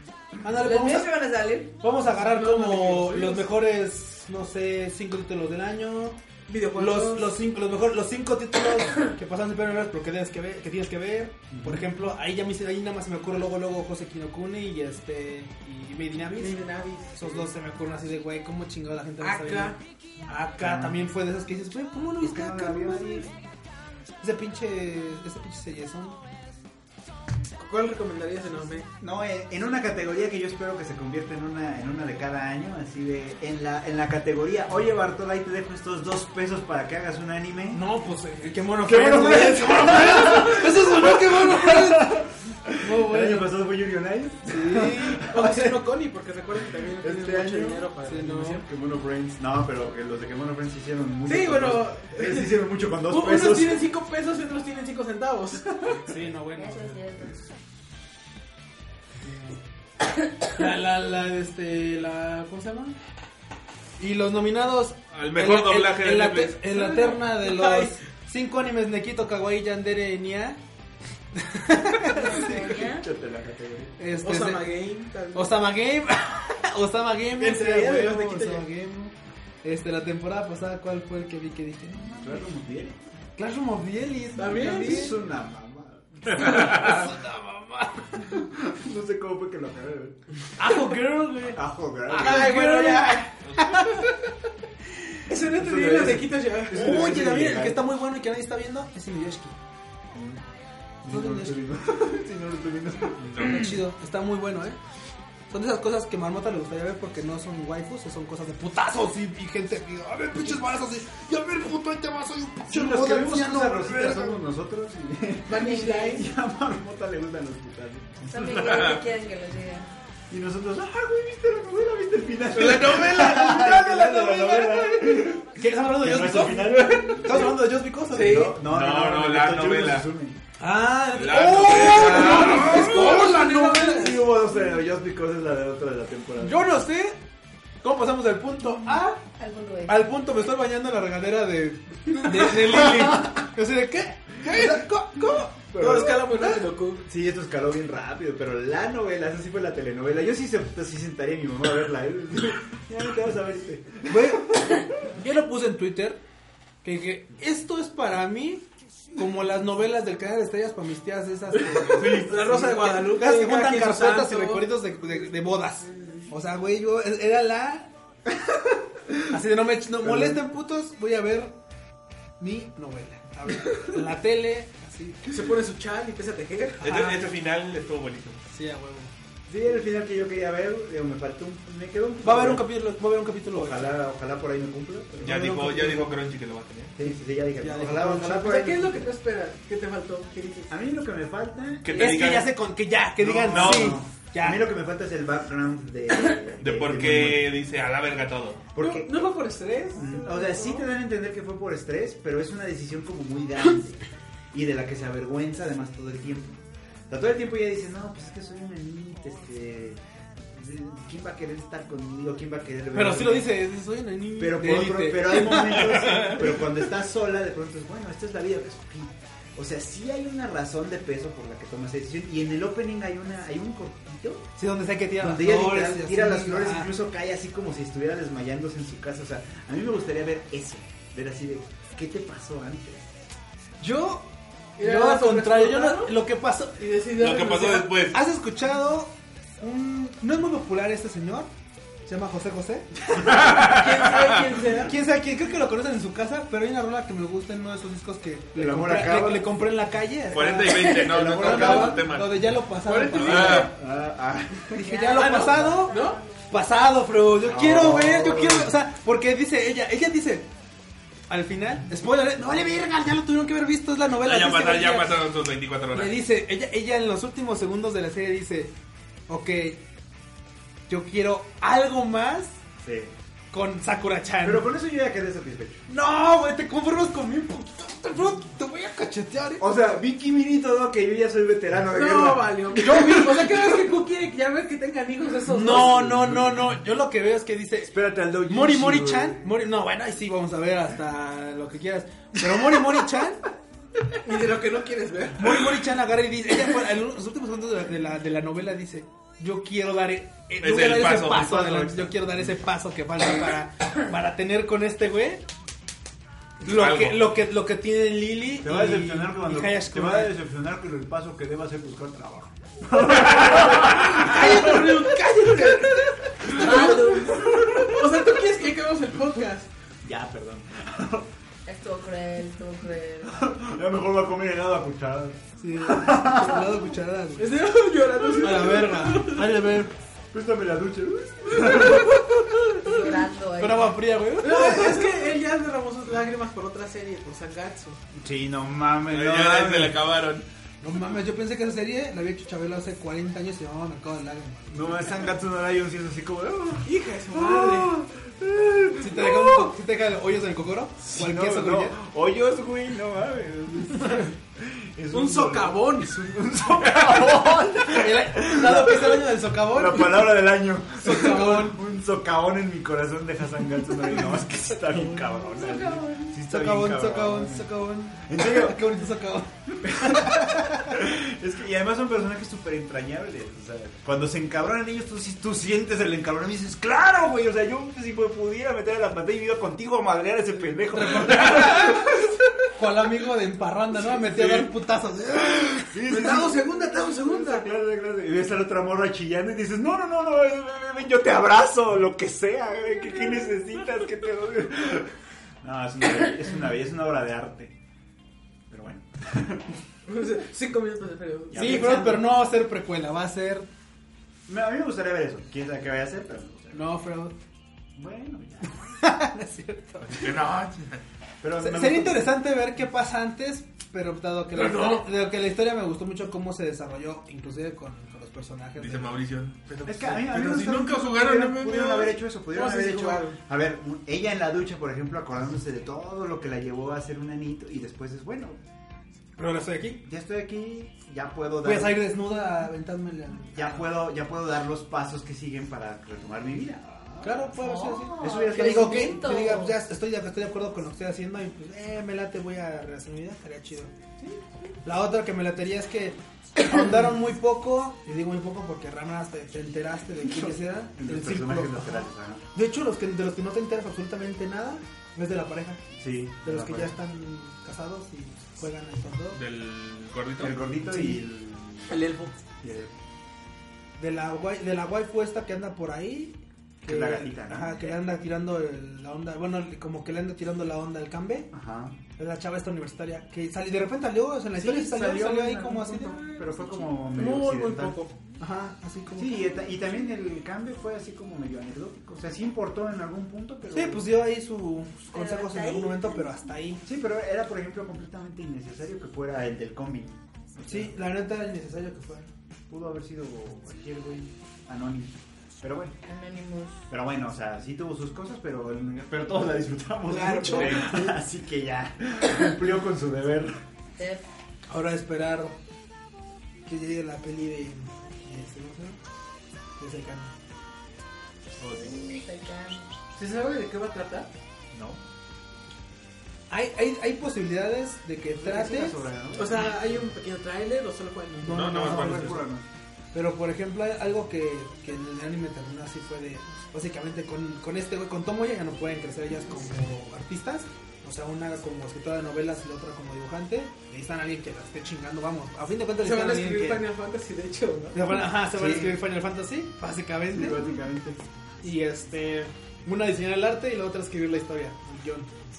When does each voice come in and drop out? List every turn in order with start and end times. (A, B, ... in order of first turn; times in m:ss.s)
0:00.4-0:01.1 A
0:00.6-0:01.7 B
0:01.8-0:06.2 A
0:02.2-0:03.6 C
0:06.5-0:07.4 C
0:06.8-0:23.3 A
0:11.5-0:11.9 D
0:16.4-0:17.5 C
0:19.2-0:19.8 C
0:20.6-0:21.0 D
0:22.2-0:23.3 D
0:24.2-0:26.2 A
0:27.6-0:28.9 C
0:29.0-0:37.8 D
0:37.7-0:42.3 A
0:38.8-0:45.5 D
0:42.8-0:43.6 A
0:44.5-0:45.8 A
0:45.3-0:48.6 C
0:46.9-0:47.9 D
0:48.0-0:48.6 A
0:48.6-0:53.9 D
0:51.3-0:56.0 C
0:56.0-0:57.0 A
0:56.6-0:57.4 B
0:59.2-0:59.6 A
1:00.5-1:03.0 A
1:04.0-1:10.6 A
1:05.1-1:06.6 E
1:06.7-1:08.0 C
1:11.4-1:12.8 A
1:12.1-1:13.0 B
1:12.2-1:14.0 D
1:14.0-1:14.8 A
1:14.2-1:15.7 C
1:15.3-1:22.4 A
1:17.4-1:18.7 C
1:22.1-1:23.0 D
1:23.4-1:25.2 A
1:24.4-1:25.1 C
1:24.4-1:27.1 D
1:26.3-1:28.4 A
1:28.2-1:30.2 D
1:30.6-1:31.6 A
1:31.4-1:32.7 D
1:32.1-1:34.2 A
1:32.2-1:33.3 C
1:35.3-1:36.9 C
1:35.4-1:37.8 D
1:36.7-1:39.6 A
1:40.1-1:40.4 D
1:41.0-1:43.8 D
1:41.1-1:41.6 A
1:43.3-1:43.8 E
1:43.4-1:44.8 A
1:45.5-1:54.4 A
1:52.7-1:58.4 D
1:55.5-1:56.3 C
1:55.5-1:56.3 B
1:58.3-1:59.9 B
1:58.5-1:59.0 E
2:00.3-2:10.4 D
2:02.6-2:08.5 A
2:08.1-2:08.6 C
2:08.6-2:10.1 E
2:10.6-2:14.3 A
2:11.1-2:12.8 E
2:11.8-2:16.7 D
2:12.0-2:14.2 C
2:16.4-2:17.2 A
2:17.8-2:19.2 A
2:19.4-2:20.0 B
2:19.9-2:25.7 A
2:22.8-2:23.1 D
2:25.7-2:26.5 D
2:25.8-2:27.0 C
2:27.0-2:34.9 D
2:34.1-2:36.2 A
2:36.8-2:47.9 A
2:41.7-2:44.7 C
2:49.3-2:51.5 A
2:50.0-2:50.4 D
2:52.4-2:55.4 A
2:55.3-2:57.0 C
2:56.8-2:58.4 E
2:56.8-2:57.3 A
2:58.5-2:59.1 A
2:59.5-3:02.8 D
3:02.2-3:03.9 A
3:03.5-3:05.3 D
3:05.2-3:06.1 A
3:05.2-3:07.0 E
3:07.0-3:09.1 D
3:07.6-3:08.6 A
3:08.5-3:10.7 C
3:10.7-3:12.3 D
3:11.8-3:12.6 E
3:12.0-3:14.6 A
3:13.2-3:17.5 D
3:13.4-3:14.0 E
3:16.6-3:18.7 E
3:18.8-3:19.3 D
3:18.8-3:20.8 C
3:19.9-3:33.5 D
3:32.9-3:36.6 A
3:34.4-3:44.5 D
3:44.6-3:46.9 A
3:45.2-3:53.1 D
3:53.8-3:54.3 A
3:54.8-3:56.1 C
3:54.8-3:56.9 A
3:56.8-3:57.9 C
3:57.2-3:58.2 E
3:57.5-4:01.5 A
4:02.0-4:03.1 A
4:03.2-4:04.4 E
4:03.5-4:05.0 C
4:04.7-4:13.7 A
4:08.6-4:09.5 D
4:10.3-4:12.6 E
4:10.9-4:12.1 D
4:12.8-4:13.7 C
4:13.2-4:13.7 E
4:13.2-4:15.0 D
4:14.7-4:16.0 A
4:14.8-4:16.6 B
4:15.1-4:16.2 C
4:16.5-4:20.5 A
4:17.4-4:18.7 D
4:21.3-4:25.2 A
4:24.2-4:26.2 E
4:25.9-4:28.7 A
4:29.3-4:29.8 A
4:30.9-4:32.6 A
4:32.8-4:33.1 D
4:33.5-4:34.7 A
4:34.4-4:35.8 D
4:35.9-4:39.7 A
4:39.6-4:43.2 D
4:41.9-4:46.1 C
4:42.8-4:43.5 A
4:45.4-4:53.4 A
4:45.8-4:46.8 D
4:47.8-4:49.6 D
4:54.2-4:55.6 C
4:55.4-5:05.4 A
5:00.6-5:01.9 E
5:01.6-5:02.6 D
5:06.6-5:10.4 A
5:06.7-5:07.3 E
5:08.6-5:14.6 D
5:14.0-5:17.2 A
5:14.3-5:15.8 C
5:16.5-5:17.8 B
5:16.5-5:19.7 C
5:17.3-5:18.0 D
5:20.0-5:21.3 D
5:21.7-5:23.4 B
5:23.3-5:26.9 D
5:25.6-5:27.7 A
5:27.4-5:29.6 C
5:28.4-5:29.9 A
5:30.3-5:32.3 D
5:31.6-5:32.3 C
5:32.8-5:34.0 B
5:33.6-5:35.3 A
5:34.4-5:38.0 C
5:38.1-5:40.0 D
5:39.1-5:40.5 E
5:40.8-5:45.2 A
5:44.7-5:49.6 D
5:46.8-5:48.0 C
5:49.0-5:52.0 A
5:51.1-6:08.8 D
5:55.1-5:56.2 C
5:57.0-5:57.3 E
5:57.8-6:00.4 A
6:01.0-6:01.7 C
6:01.0-6:01.8 A
6:05.4-6:06.3 B
6:06.5-6:11.0 A
6:09.8-6:22.3 D
6:20.9-6:26.5 A
6:24.2-6:24.7 D
6:25.9-6:35.1 D
6:26.1-6:27.7 C
6:35.6-6:37.8 D
6:38.7-6:39.8 D
6:40.1-6:42.2 C
6:41.5-6:42.4 D
6:41.5-6:43.7 A
6:44.5-6:47.0 D
6:46.7-6:47.4 A
6:48.0-6:48.8 D
6:49.0-6:50.3 A
6:50.0-6:51.0 E
6:51.4-6:52.4 D
6:51.6-7:00.3 A
6:54.5-6:55.1 C
6:58.8-6:59.7 E
6:59.9-7:08.6 D
7:00.2-7:03.4 C
7:09.4-7:10.0 A
7:10.0-7:12.1 D
7:11.6-7:13.9 A
7:13.5-7:19.3 D
7:17.2-7:23.9 A
7:17.6-7:19.8 B
7:24.8-7:35.8 A
7:30.2-7:32.4 D
7:36.0-7:37.0 D
7:36.4-7:39.4 A
7:39.3-7:40.6 E
7:40.4-7:42.1 D
7:40.8-7:41.2 A
7:41.9-7:42.4 C
7:42.6-7:42.9 D
7:44.0-7:51.5 A
7:46.9-7:48.0 D
7:51.5-7:52.0 D
7:52.2-7:56.2 A
7:54.6-7:58.2 C
7:56.2-7:58.0 D
7:58.4-7:59.8 A
7:59.2-8:04.1 D
8:03.7-8:06.8 A
8:05.1-8:06.5 B
8:06.8-8:10.9 D
8:10.7-8:12.3 A
8:12.7-8:16.0 D
8:16.1-8:16.8 B
8:16.9-8:23.6 D
8:20.1-8:21.0 A
8:20.2-8:21.0 C
8:24.0-8:24.2 B
8:24.7-8:25.6 A
8:26.7-8:29.0 A
8:29.8-8:30.3 A
8:31.6-8:32.1 E
8:31.6-8:32.9 B
8:33.2-8:34.3 C
8:34.7-8:35.0 D
8:36.5-8:39.1 A
8:38.4-8:40.1 D
8:39.4-8:41.6 C
8:41.4-8:42.4 A
8:41.4-8:42.4 E
8:41.7-8:42.7 D
8:43.1-8:56.9 A
8:56.0-8:58.0 C
8:57.9-9:00.7 A
8:58.5-8:59.0 D
9:00.3-9:01.2 D
9:01.6-9:05.3 A